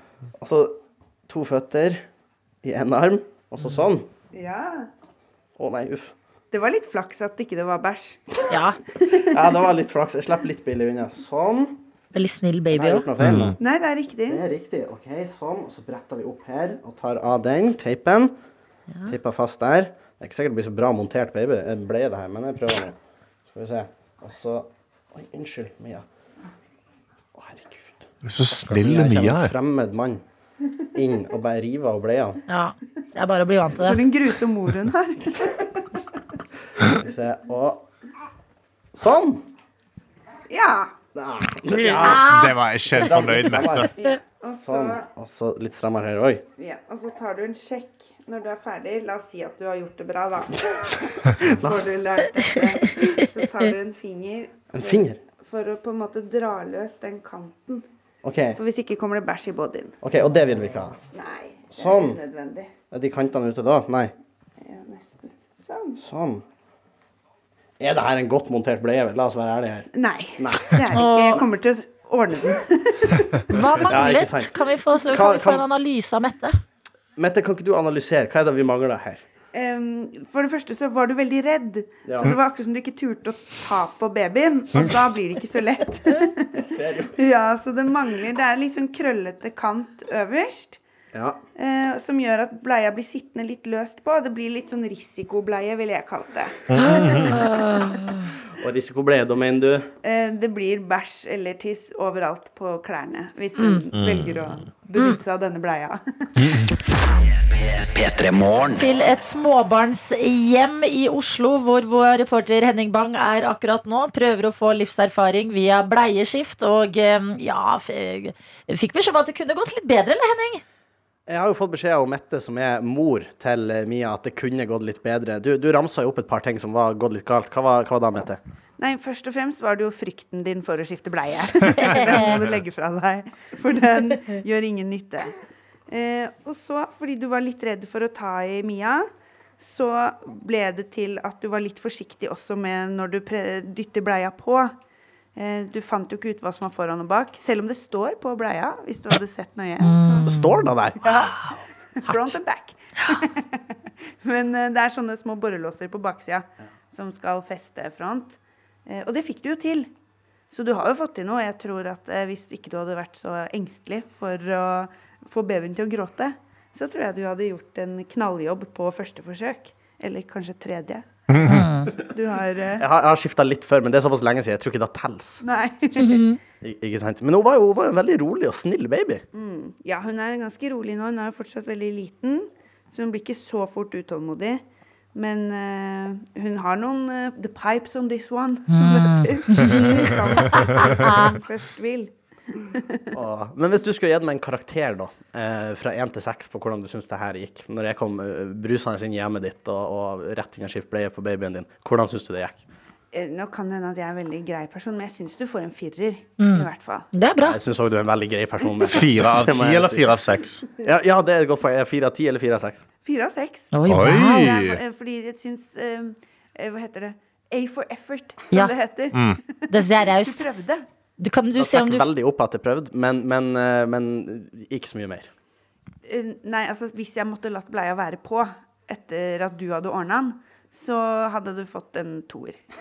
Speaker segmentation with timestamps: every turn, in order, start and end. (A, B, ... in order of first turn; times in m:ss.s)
0:00.4-0:00.8 A
0:01.3-0:02.0 A
0:02.6-0:04.1 A
0:04.3-0:04.9 B
0:05.6-0:06.1 A
0:06.5-0:08.2 B
0:08.5-0:08.8 C
0:09.0-0:09.7 B
0:09.1-0:11.8 A
0:12.1-0:13.1 C
0:12.7-0:13.6 A
0:13.2-0:13.5 D
0:13.6-0:14.4 B
0:14.3-0:18.3 A
0:19.0-0:23.0 A
0:23.5-0:26.0 A
0:27.3-0:30.2 A
0:28.2-0:29.5 D
0:30.9-0:32.4 A
0:32.5-0:34.0 C
0:33.7-0:35.8 B
0:36.8-0:37.9 A
0:38.9-0:39.5 A
0:40.5-0:40.9 B
0:41.1-0:42.4 A
0:41.9-0:43.0 C
0:42.0-0:43.9 D
0:42.9-0:43.9 A
0:43.5-0:45.1 B
0:44.5-0:46.4 A
0:46.6-0:57.8 B
0:51.3-0:52.0 A
0:54.7-0:55.2 A
0:58.2-0:58.6 A
0:58.5-1:00.0 B
1:00.0-1:01.0 A
1:01.1-1:02.7 B
1:01.7-1:02.2 A
1:02.9-1:04.1 A
1:04.6-1:06.0 B
1:06.0-1:06.4 A
1:07.8-1:10.9 A
1:09.9-1:13.9 B
1:10.9-1:11.4 C
1:13.5-1:16.6 C
1:13.9-1:15.6 A
1:17.2-1:19.2 A
1:19.5-1:30.8 B
1:22.0-1:22.4 A
1:26.6-1:27.1 A
1:31.1-1:31.4 A
1:31.6-1:37.5 B
1:36.7-1:37.3 D
1:38.6-1:39.9 A
1:40.0-1:46.6 B
1:43.6-1:43.8 C
1:43.9-1:44.5 D
1:46.4-1:46.7 D
1:47.0-1:49.0 E
1:48.7-2:00.6 C
2:01.3-2:08.4 A
2:08.8-2:15.3 B
2:11.8-2:12.4 C
2:15.9-2:24.7 B
2:25.4-2:30.3 B
2:29.8-2:30.7 C
2:30.2-2:31.3 A
2:31.0-2:31.5 B
2:32.0-2:33.6 B
2:34.2-2:39.9 B
2:40.5-2:51.1 B
2:51.3-2:51.7 D
2:51.4-2:51.9 C
2:52.0-2:52.8 B
2:52.8-2:55.4 A
2:55.4-2:56.3 B
2:56.0-2:56.4 C
2:56.6-2:59.2 A
2:59.3-3:13.2 B
3:08.7-3:11.4 C
3:13.1-3:22.6 A
3:23.1-3:27.1 B
3:26.4-3:27.6 C
3:27.4-3:30.2 A
3:28.7-3:29.0 B
3:28.8-3:30.6 D
3:30.8-3:32.8 A
3:33.0-3:40.8 B
3:33.7-3:34.5 C
3:33.9-3:34.8 D
3:39.1-3:39.4 D
3:39.7-3:40.5 C
3:41.2-3:42.1 C
3:41.6-3:45.3 A
3:46.0-3:52.6 B